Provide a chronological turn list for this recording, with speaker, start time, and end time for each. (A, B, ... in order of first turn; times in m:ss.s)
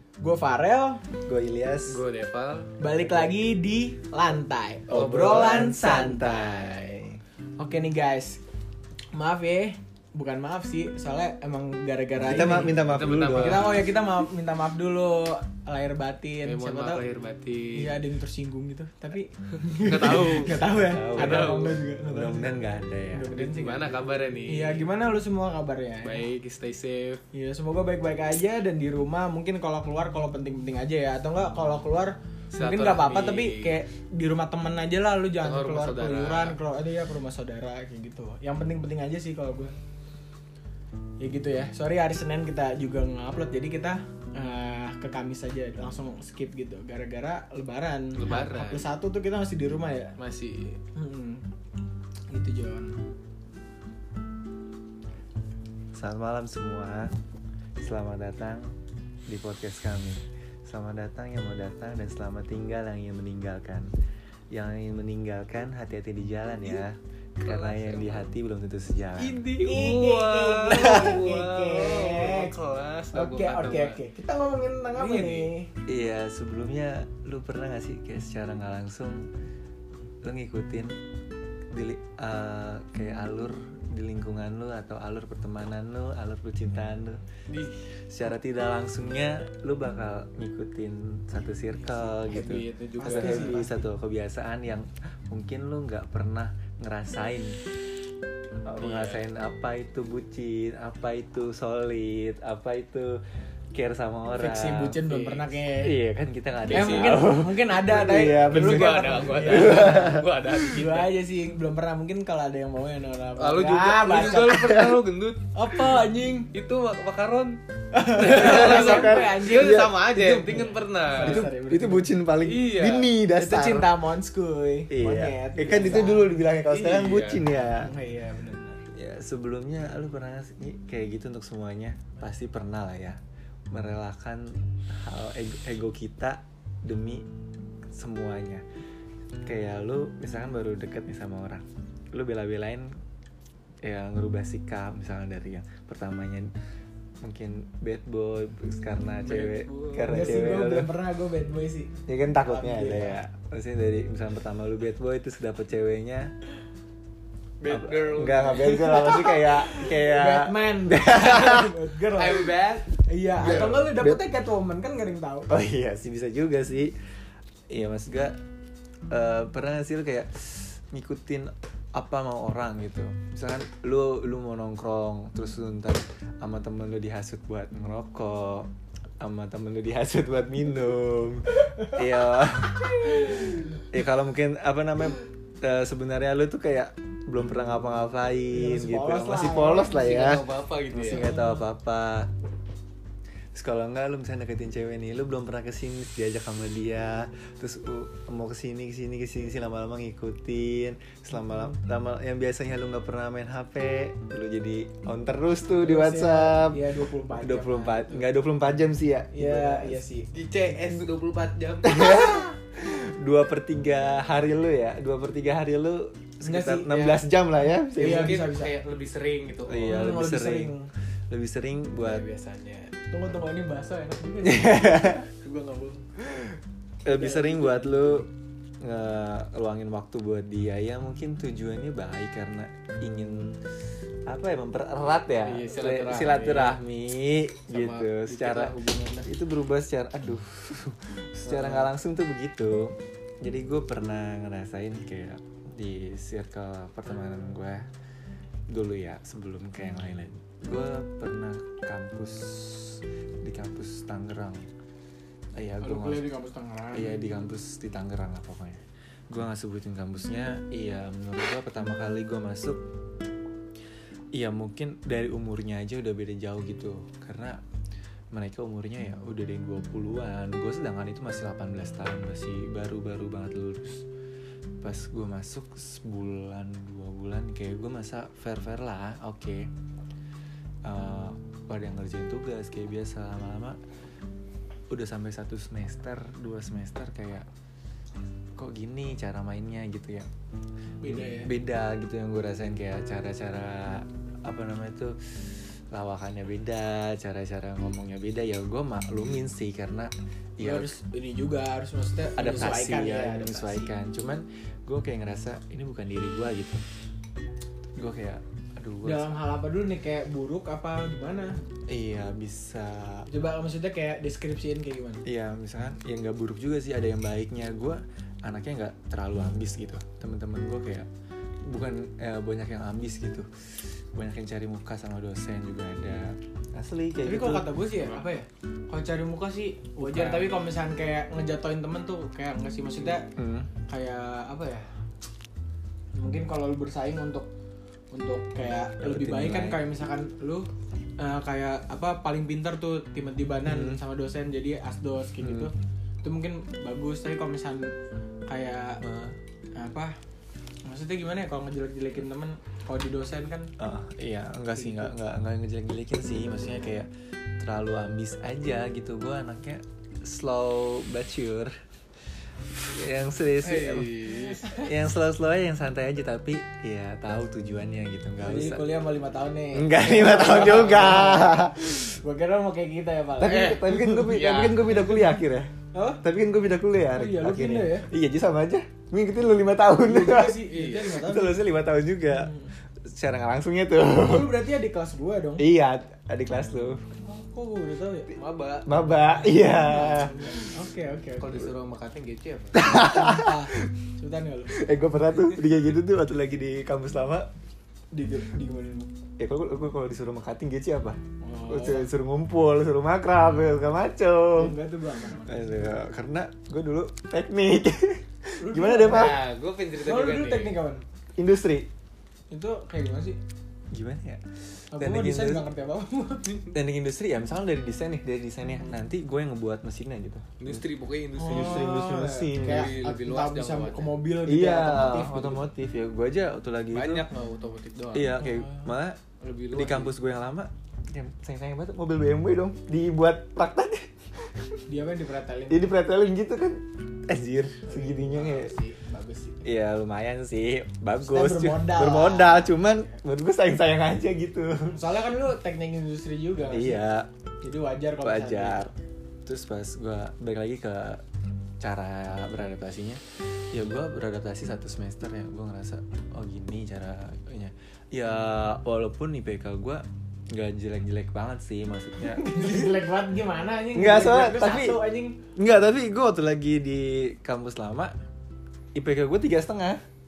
0:00.2-0:01.0 A
0:01.3-0:02.0 B
0:01.9-0:02.7 C
0:02.8-0:06.9 A
0:03.0-0:03.3 B
0:04.9-0:07.2 B
0:07.6-0:08.4 A
0:09.1-0:12.8 A
0:12.2-0:13.8 B
0:12.7-0:13.9 C
0:13.4-0:17.0 A
0:16.4-0:18.0 C
0:17.7-0:22.5 A
0:19.7-0:21.8 C
0:20.7-0:23.3 B
0:23.1-0:23.9 A
0:23.3-0:24.9 C
0:24.5-0:26.2 A
0:26.0-0:27.2 C
0:27.3-0:39.7 A
0:32.5-0:33.8 C
0:35.4-0:36.6 C
0:41.2-0:50.1 A
0:48.1-0:48.9 C
0:50.2-0:50.8 C
0:50.9-0:51.4 A
0:52.3-0:53.0 A
0:55.9-0:57.1 B
0:57.8-0:58.7 B
0:59.3-1:03.9 B
1:04.5-1:09.4 B
1:07.4-1:08.3 C
1:09.2-1:14.0 C
1:09.6-1:12.5 A
1:13.1-1:15.7 A
1:14.9-1:15.5 C
1:15.9-1:19.3 B
1:20.2-1:20.9 B
1:21.7-1:27.2 B
1:27.5-1:27.7 C
1:28.1-1:37.6 B
1:31.9-1:33.6 C
1:33.0-1:33.7 A
1:38.6-1:43.2 B
1:38.8-1:39.2 C
1:43.7-1:45.0 B
1:44.3-1:45.9 A
1:45.1-1:45.6 C
1:45.6-1:50.3 B
1:46.7-1:47.2 C
1:46.7-1:54.8 A
1:48.5-1:51.1 C
1:53.4-1:55.9 C
1:54.5-1:55.0 B
1:55.5-1:56.5 A
1:56.5-2:01.5 C
1:57.9-2:02.1 A
1:58.3-2:00.5 B
2:01.2-2:03.9 B
2:02.4-2:03.1 C
2:03.3-2:06.3 A
2:04.9-2:07.9 B
2:06.7-2:07.4 C
2:07.7-2:08.8 A
2:08.9-2:13.2 B
2:13.7-2:17.2 B
2:17.9-2:18.6 B
2:19.4-2:23.0 B
2:23.8-2:26.5 B
2:27.2-2:31.0 B
2:29.2-2:30.4 C
2:30.0-2:33.2 A
2:32.1-2:36.3 B
2:37.6-2:38.9 C
2:37.7-2:41.7 B
2:38.6-2:42.5 A
2:42.1-2:43.0 C
2:43.0-2:45.5 A
2:43.4-2:44.2 B
2:45.5-2:47.0 B
2:47.7-2:48.4 B
2:49.1-3:12.3 B
3:08.5-3:10.1 A
3:09.9-3:11.3 C
3:11.1-3:11.6 A
3:13.5-3:30.0 B
3:25.7-3:28.2 A
3:29.3-3:30.3 A
3:30.3-3:32.1 C
3:31.8-3:38.4 B
3:36.4-3:37.2 A
3:37.9-3:38.7 A
3:38.0-3:40.1 C
3:39.7-3:40.7 B
3:39.8-3:40.9 A
3:41.3-3:42.2 B
3:42.0-3:42.9 C
3:43.1-3:46.1 A
3:44.4-3:45.2 B
3:47.0-3:53.6 B
3:47.0-3:48.2 A
3:54.3-3:58.7 B
3:55.4-3:56.8 C
3:57.7-3:58.6 C
3:58.3-3:59.3 A
3:59.2-4:07.9 B
4:08.7-4:14.6 B
4:15.6-4:16.2 B
4:15.8-4:17.5 A
4:16.9-4:22.8 B
4:24.3-4:27.6 B
4:28.3-4:34.0 B
4:34.8-4:39.7 B
4:40.8-4:43.8 B
4:44.9-4:47.5 B
4:48.6-4:50.3 B
4:51.0-4:51.5 A
4:51.0-5:01.0 B
5:00.6-5:03.9 A
5:02.4-5:06.8 B
5:08.0-5:09.3 B
5:09.0-5:11.6 A
5:11.9-5:13.3 B
5:13.3-5:15.2 A
5:15.2-5:21.1 B
5:21.6-5:27.9 B
5:27.2-5:33.3 A
5:30.0-5:30.4 B
5:33.3-5:33.7 B
5:33.9-5:34.9 A
5:36.1-5:37.5 A
5:38.1-5:48.0 A
5:39.0-5:39.8 B
5:43.6-5:44.0 B
5:45.4-5:45.7 B
5:48.5-5:49.0 A
5:49.0-5:49.4 B
5:49.7-5:50.1 A
5:50.8-5:53.7 A
5:53.8-6:01.7 B
5:54.8-5:55.1 A
6:02.7-6:04.1 B
6:03.6-6:04.8 C
6:04.7-6:08.9 B
6:08.4-6:11.6 A
6:09.7-6:12.2 B
6:12.2-6:13.8 A
6:13.4-6:24.5 B
6:13.5-6:15.4 C
6:15.9-6:16.2 A
6:17.1-6:18.1 A
6:20.0-6:21.6 A
6:20.7-6:21.1 C
6:22.3-6:22.6 A
6:24.2-6:25.6 A
6:25.6-6:27.1 B
6:27.2-6:28.4 A
6:28.3-6:28.9 C
6:28.8-6:30.6 B
6:29.5-6:31.6 A
6:31.4-6:32.9 C
6:32.7-6:33.9 B
6:32.8-6:34.8 A
6:34.7-6:37.5 B
6:38.1-6:39.1 A
6:39.4-6:44.8 B
6:41.4-6:42.1 A
6:44.5-6:45.9 A
6:45.4-6:49.4 B
6:48.6-6:49.4 A
6:49.0-6:50.7 C
6:50.0-6:51.0 A
6:51.4-6:51.9 B
6:52.5-6:53.4 A
6:53.9-6:55.6 B
6:54.9-6:56.7 A
6:56.7-7:00.8 B
7:00.6-7:01.9 C
7:01.4-7:05.6 A
7:01.4-7:02.9 B
7:02.5-7:04.1 C
7:04.4-7:07.3 B
7:06.9-7:08.4 C
7:08.1-7:09.2 B
7:08.4-7:08.8 A
7:09.4-7:10.1 C
7:09.7-7:14.8 B
7:14.9-7:15.9 A
7:15.7-7:18.7 B
7:17.8-7:19.6 A
7:19.6-7:25.0 B
7:21.2-7:23.1 A
7:24.9-7:27.0 A
7:26.7-7:27.3 B
7:27.6-7:28.9 A
7:28.2-7:28.9 B
7:29.4-7:31.2 B
7:31.8-7:42.8 B
7:42.2-7:45.4 A
7:43.9-7:45.0 B
7:45.5-7:48.1 B
7:48.9-7:50.0 B